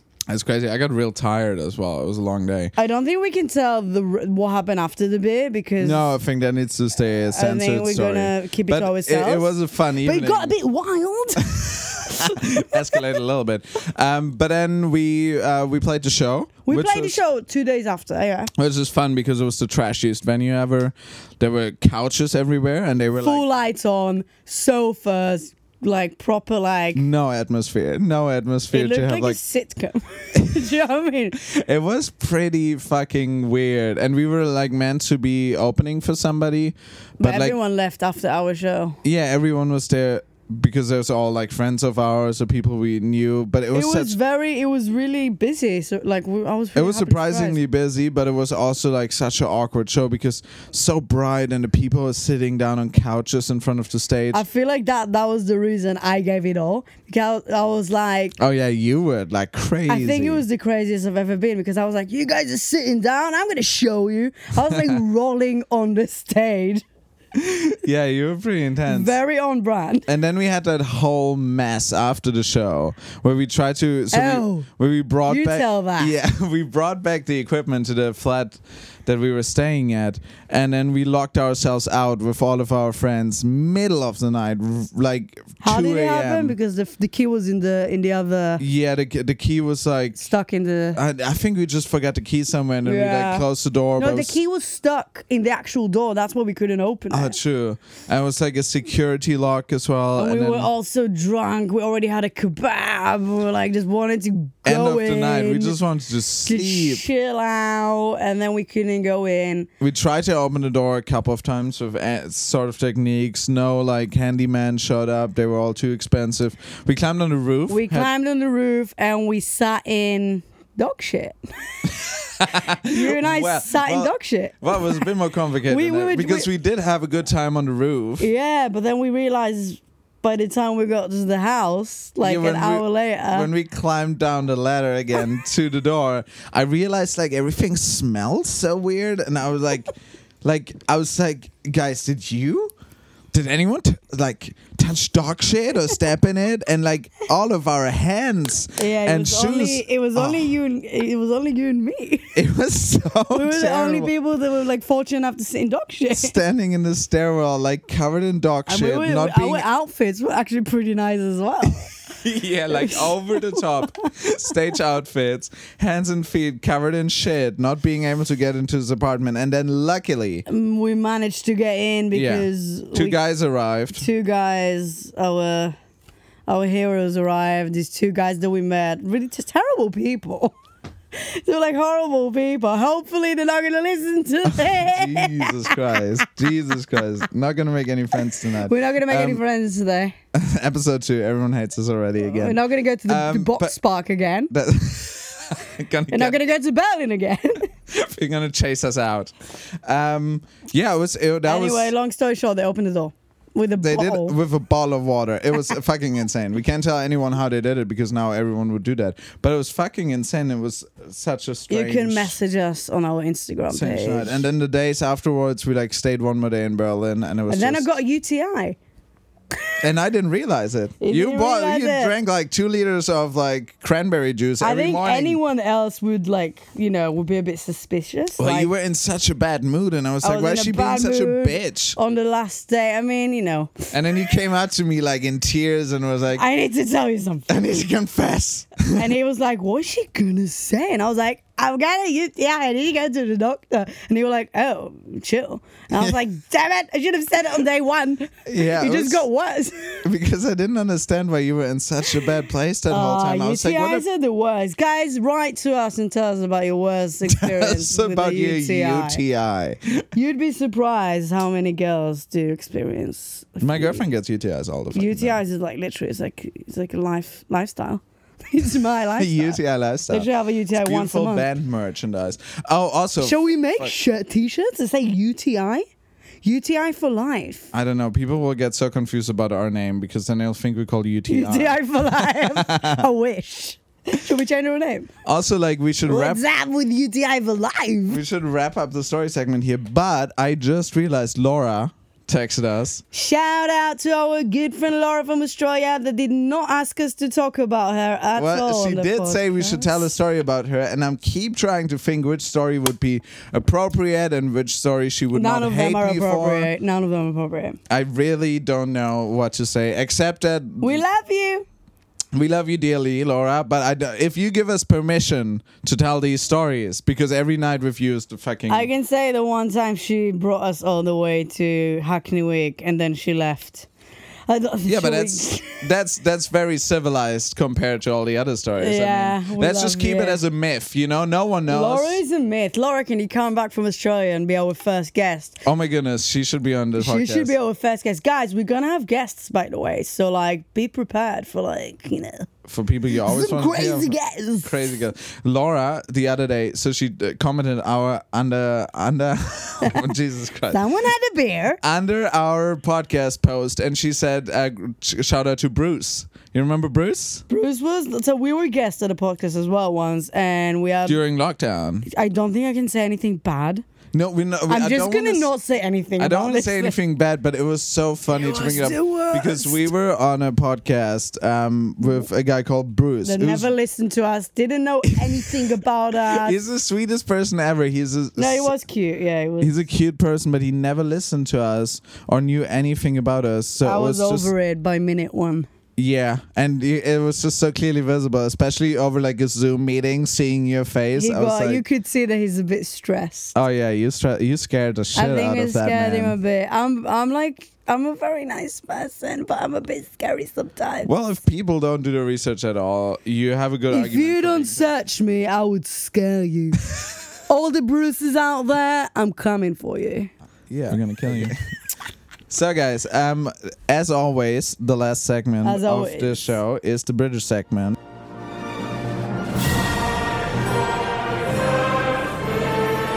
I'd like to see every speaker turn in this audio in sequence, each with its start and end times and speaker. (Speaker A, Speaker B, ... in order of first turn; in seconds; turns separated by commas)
Speaker A: 0.3-2.7, Speaker B: 2.8-6.1, Speaker A: 5.8-10.5, Speaker B: 7.3-13.1, Speaker A: 11.4-17.2, Speaker B: 16.6-18.5, Speaker A: 18.5-23.4, Speaker B: 23.2-27.0, Speaker A: 26.9-29.4, Speaker B: 28.7-31.4, Speaker A: 30.4-30.6, Speaker A: 31.3-37.5, Speaker B: 37.2-39.0, Speaker A: 39.0-44.1, Speaker B: 43.7-47.6, Speaker A: 46.7-54.4, Speaker B: 54.3-58.4, Speaker A: 58.4-60.4, Speaker B: 59.9-66.8, Speaker A: 64.7-65.0, Speaker A: 67.3-69.2, Speaker B: 68.9-70.1, Speaker A: 70.1-86.5, Speaker B: 74.1-74.7, Speaker B: 75.3-76.2, Speaker B: 85.6-88.6, Speaker A: 88.6-90.2, Speaker B: 90.2-91.0, Speaker A: 90.9-94.4, Speaker B: 92.8-93.5, Speaker B: 94.0-97.4, Speaker A: 97.1-100.7, Speaker B: 100.2-105.8, Speaker A: 104.6-107.0, Speaker B: 106.4-109.7, Speaker A: 109.8-118.1, Speaker B: 117.7-121.9, Speaker A: 122.0-128.3, Speaker B: 122.5-125.1, Speaker B: 125.7-126.5, Speaker B: 128.2-133.5, Speaker A: 132.2-142.7, Speaker A: 143.3-150.5, Speaker B: 148.8-152.4, Speaker A: 152.3-154.1, Speaker B: 153.3-156.3, Speaker A: 156.1-159.7, Speaker B: 158.7-161.9, Speaker A: 162.1-170.4, Speaker B: 162.7-164.1, Speaker B: 170.5-173.2, Speaker A: 172.1-174.1, Speaker B: 173.9-175.7, Speaker B: 176.5-180.6, Speaker B: 181.1-186.3, Speaker A: 184.5-189.4, Speaker B: 188.6-190.2, Speaker A: 190.3-193.7, Speaker B: 192.2-194.5, Speaker A: 194.5-196.4, Speaker B: 196.1-197.7, Speaker A: 197.9-201.9, Speaker B: 201.4-204.4, Speaker A: 203.8-212.3, Speaker B: 211.7-214.4, Speaker A: 213.7-217.9, Speaker B: 217.5-218.8, Speaker A: 219.8-225.4, Speaker B: 221.0-222.1, Speaker B: 224.6-228.7, Speaker A: 228.4-232.0, Speaker B: 230.2-233.9, Speaker A: 233.9-236.4, Speaker B: 236.3-237.5, Speaker A: 237.5-239.1, Speaker B: 238.9-250.0, Speaker A: 248.4-249.2, Speaker A: 250.0-254.0, Speaker B: 252.9-259.2, Speaker A: 257.3-260.1, Speaker B: 260.1-264.0, Speaker A: 263.6-265.4, Speaker B: 264.9-271.5, Speaker A: 269.1-273.9, Speaker B: 273.2-275.8, Speaker B: 276.4-277.7, Speaker A: 277.7-283.1, Speaker B: 281.3-285.1, Speaker A: 285.2-286.4, Speaker B: 286.0-288.2, Speaker A: 288.1-293.0, Speaker B: 293.1-300.1, Speaker A: 298.4-306.7, Speaker B: 305.3-307.8, Speaker A: 307.9-311.0, Speaker B: 310.8-311.6, Speaker A: 312.3-318.9, Speaker B: 318.7-323.9, Speaker B: 324.5-325.8, Speaker A: 324.9-332.2, Speaker B: 328.8-330.4, Speaker B: 331.7-335.6, Speaker A: 335.6-337.5, Speaker B: 337.0-342.5, Speaker A: 342.6-350.9, Speaker B: 343.1-344.9, Speaker B: 349.8-350.1, Speaker B: 350.7-351.8, Speaker A: 351.8-357.4, Speaker B: 357.5-361.2, Speaker A: 361.1-362.1, Speaker B: 362.1-363.8, Speaker A: 364.1-365.5, Speaker B: 364.7-367.0, Speaker A: 366.2-373.7, Speaker B: 368.3-369.9, Speaker B: 373.2-376.6, Speaker A: 375.1-378.7, Speaker B: 378.4-379.8, Speaker A: 379.6-384.5, Speaker B: 383.8-385.7, Speaker A: 386.0-391.8, Speaker B: 391.1-393.5, Speaker A: 393.5-396.4, Speaker B: 395.1-401.1, Speaker A: 401.1-404.9, Speaker B: 403.9-410.3, Speaker A: 410.7-411.5, Speaker A: 412.5-418.0, Speaker B: 415.6-416.6